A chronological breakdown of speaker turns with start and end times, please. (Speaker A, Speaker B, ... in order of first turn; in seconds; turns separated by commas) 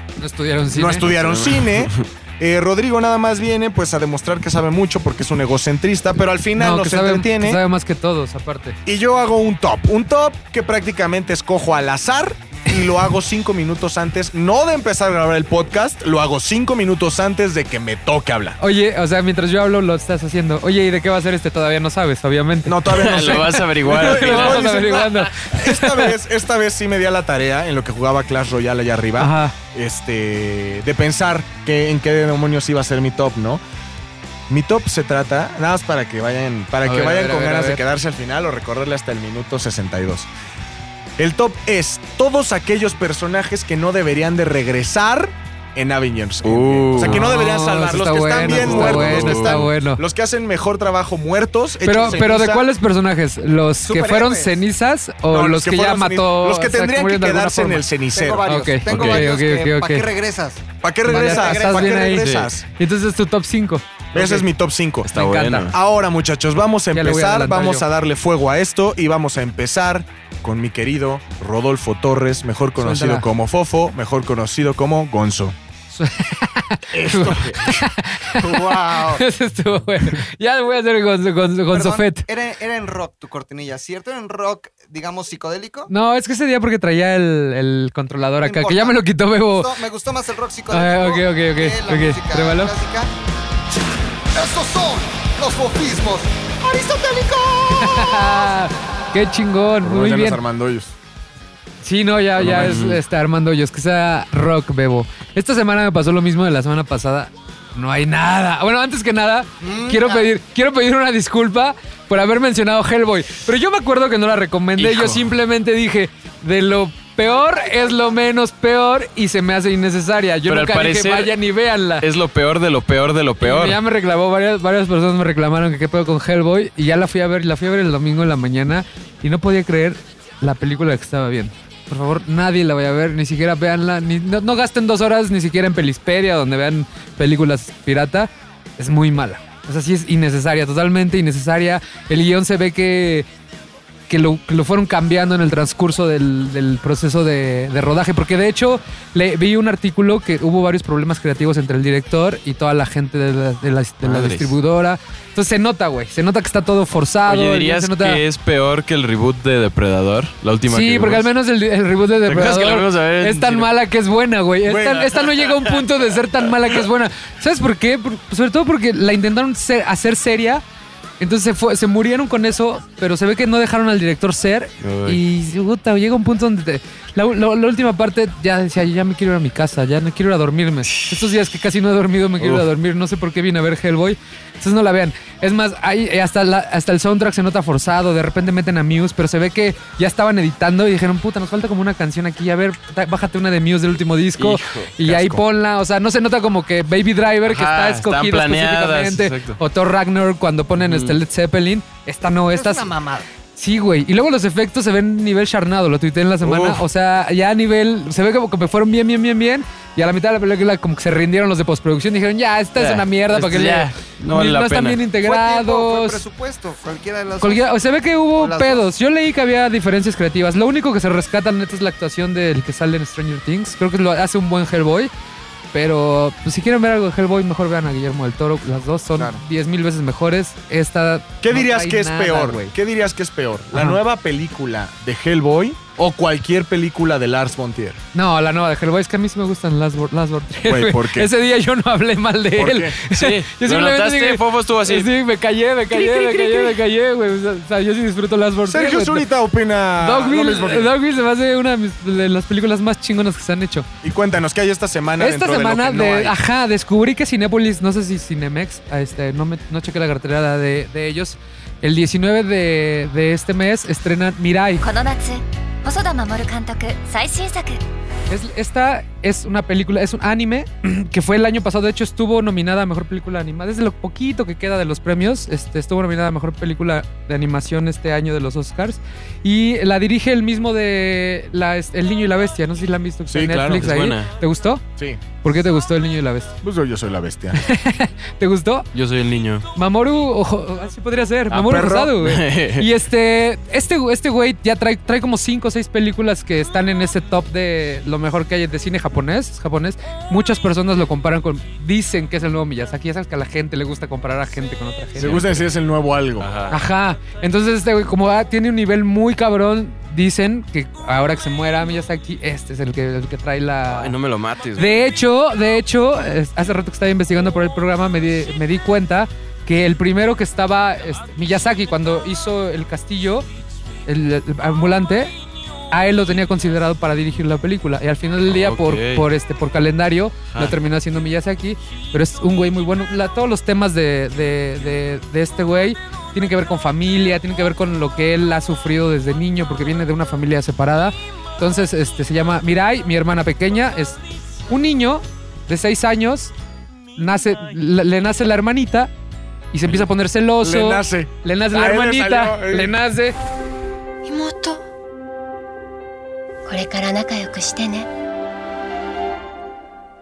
Speaker A: 0.2-1.0, Speaker B: 0.7-7.6, Speaker C: 1.0-2.0, Speaker A: 6.6-8.8, Speaker B: 8.9-18.6, Speaker A: 18.6-26.1, Speaker B: 22.6-33.6, Speaker C: 22.9-24.7, Speaker A: 29.2-29.6, Speaker B: 34.5-40.3, Speaker A: 36.8-37.8, Speaker B: 41.2-52.7, Speaker C: 46.4-47.2, Speaker A: 47.0-50.0, Speaker C: 48.5-49.6, Speaker A: 51.8-57.9, Speaker D: 53.8-54.6, Speaker B: 55.3-58.5, Speaker D: 58.1-62.1, Speaker A: 58.5-60.1, Speaker C: 58.9-59.3, Speaker B: 60.8-62.7, Speaker A: 61.1-64.5, Speaker C: 62.2-62.5, Speaker B: 64.1-75.6, Speaker A: 65.1-65.7, Speaker C: 65.1-65.8, Speaker A: 66.9-67.8, Speaker A: 72.8-73.3, Speaker A: 75.9-82.2, Speaker B: 77.0-77.6, Speaker D: 78.4-79.2, Speaker D: 81.7-85.9, Speaker A: 85.9-89.7, Speaker D: 88.4-93.1, Speaker A: 90.7-92.7, Speaker D: 94.3-98.5, Speaker A: 97.7-100.4, Speaker B: 99.8-101.0, Speaker A: 101.8-122.1, Speaker C: 102.4-103.0, Speaker D: 109.6-110.3, Speaker C: 114.8-115.3, Speaker D: 117.3-118.0, Speaker C: 120.5-121.3, Speaker C: 122.0-123.8, Speaker A: 123.4-143.3, Speaker A: 144.1-158.2, Speaker C: 154.0-154.6, Speaker C: 157.3-161.3, Speaker A: 160.7-170.6, Speaker C: 162.2-163.7, Speaker B: 164.6-165.4, Speaker A: 171.2-202.9, Speaker C: 174.8-175.2, Speaker C: 180.9-181.2, Speaker C: 182.4-182.7, Speaker C: 194.4-194.9, Speaker B: 195.1-195.4, Speaker C: 197.4-199.6, Speaker C: 200.8-201.2, Speaker D: 202.5-203.3, Speaker A: 203.6-216.2, Speaker C: 206.4-206.8, Speaker C: 212.8-215.0, Speaker D: 215.2-217.7, Speaker A: 217.4-225.1, Speaker D: 218.3-218.9, Speaker A: 225.7-232.7, Speaker B: 231.4-238.0, Speaker A: 233.7-234.0, Speaker A: 238.1-249.3, Speaker B: 240.7-241.3, Speaker B: 242.6-243.0, Speaker C: 243.1-245.1, Speaker C: 245.9-246.6, Speaker B: 248.7-250.9, Speaker A: 250.0-253.9, Speaker B: 254.0-256.4, Speaker A: 255.2-264.8, Speaker E: 264.8-267.8, Speaker A: 268.3-284.8, Speaker B: 283.3-283.9, Speaker C: 283.8-284.3, Speaker A: 285.4-286.5, Speaker B: 286.6-287.6, Speaker A: 287.6-288.9, Speaker C: 288.9-289.7, Speaker A: 289.8-305.6, Speaker C: 291.5-292.9, Speaker B: 305.2-306.5, Speaker C: 305.2-305.6, Speaker C: 306.4-306.8, Speaker A: 306.7-314.1, Speaker C: 313.9-315.2, Speaker A: 314.8-323.4, Speaker A: 324.1-325.3, Speaker A: 325.9-346.5, Speaker C: 328.5-329.2, Speaker A: 347.2-349.1, Speaker A: 349.7-353.4, Speaker B: 350.6-352.9, Speaker E: 354.2-354.8, Speaker E: 356.7-358.1